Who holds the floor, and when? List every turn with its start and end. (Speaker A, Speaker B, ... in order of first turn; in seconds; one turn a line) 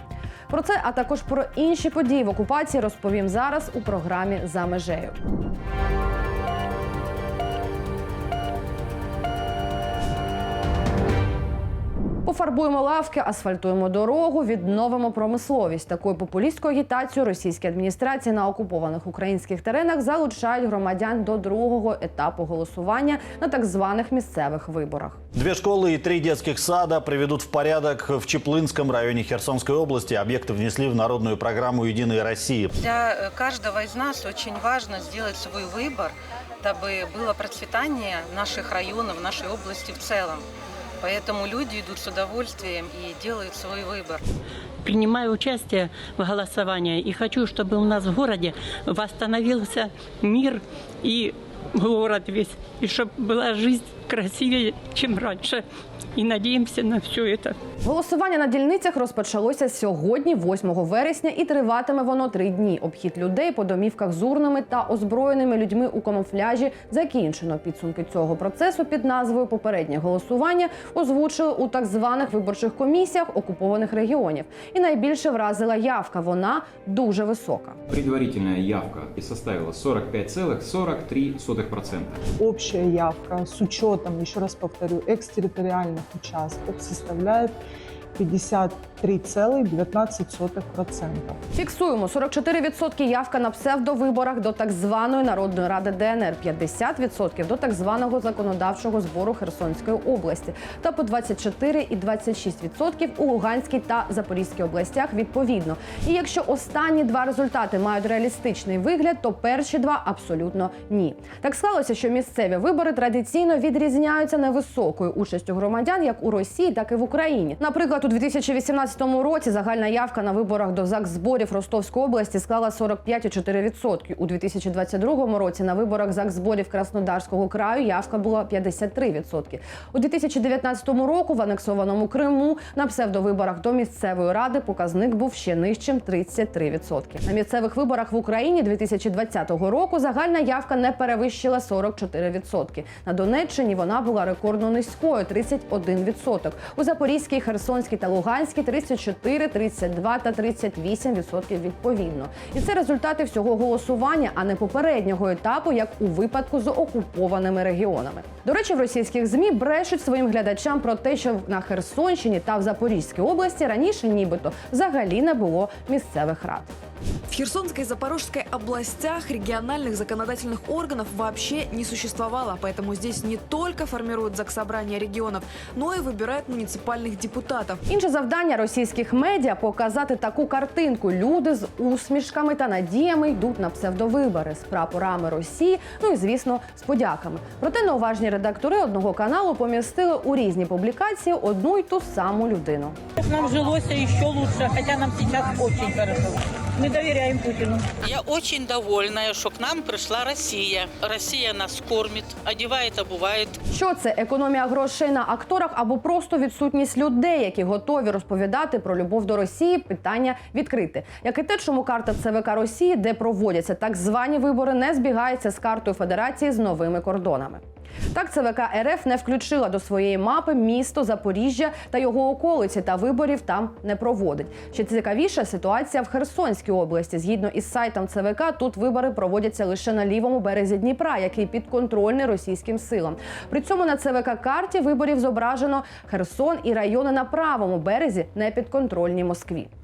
Speaker A: 0.5-5.2
Speaker A: 12.2-25.2
Speaker B: 25.3-32.7
Speaker C: 32.8-40.4
Speaker C: 41.0-44.2
Speaker D: 44.8-55.6
Speaker D: 56.1-57.5
Speaker A: 57.8-77.8
Speaker E: 77.9-82.2
Speaker F: 82.4-87.6
Speaker F: 88.2-91.4
Speaker A: 91.5-166.7
Speaker G: 167.3-177.8
Speaker A: 177.9-193.0
Speaker H: 193.2-197.9
Speaker I: 198.0-203.6
Speaker A: 203.7-239.7